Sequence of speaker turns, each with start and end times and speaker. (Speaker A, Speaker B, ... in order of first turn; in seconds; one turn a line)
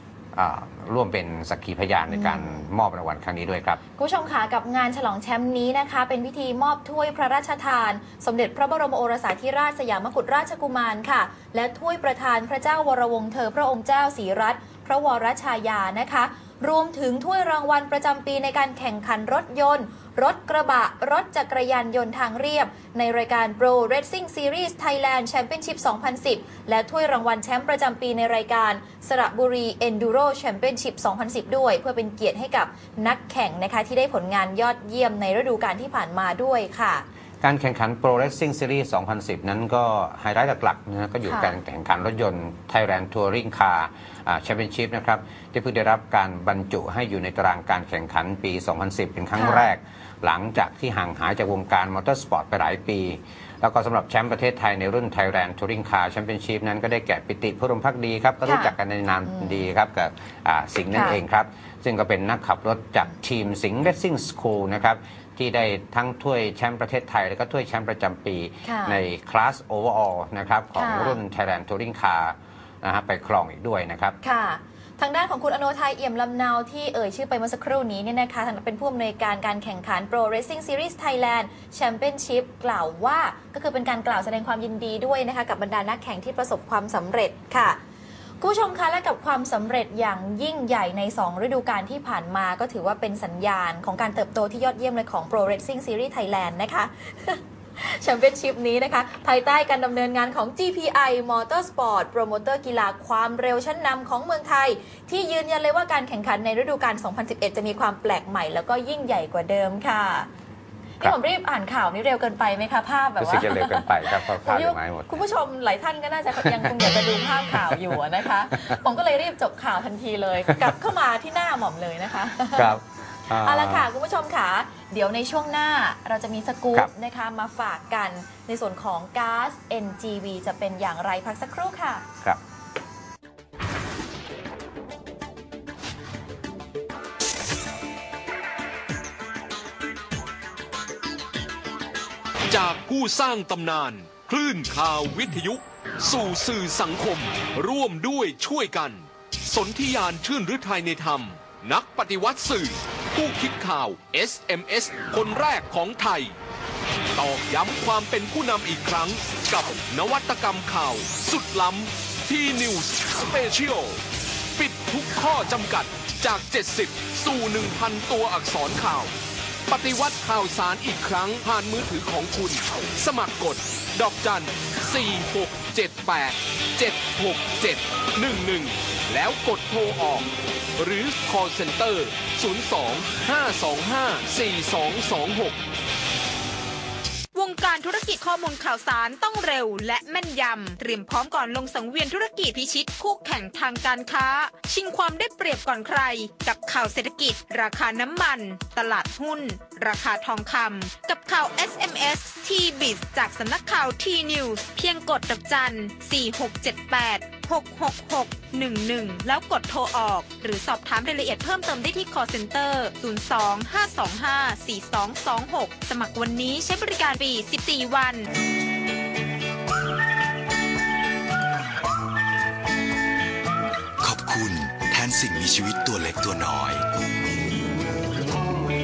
Speaker A: 0.3-3.8
Speaker B: 2.1-2.6
Speaker B: 4.0-37.0
Speaker A: 37.4-74.2
Speaker B: 41.2-41.6
Speaker B: 49.4-49.7
Speaker B: 58.5-58.8
Speaker B: 59.3-59.6
Speaker B: 60.9-61.2
Speaker B: 68.6-69.0
Speaker B: 70.8-71.2
Speaker B: 74.2-87.8
Speaker B: 88.4-110.3
Speaker B: 111.0-122.7
Speaker A: 113.2-115.2
Speaker A: 116.5-116.7
Speaker A: 122.5-123.9
Speaker B: 123.4-132.1
Speaker C: 142.5-156.3
Speaker C: 157.1-164.0
Speaker C: 164.6-169.1
Speaker C: 169.7-185.6
Speaker D: 187.3-218.3
Speaker E: 224.0-226.8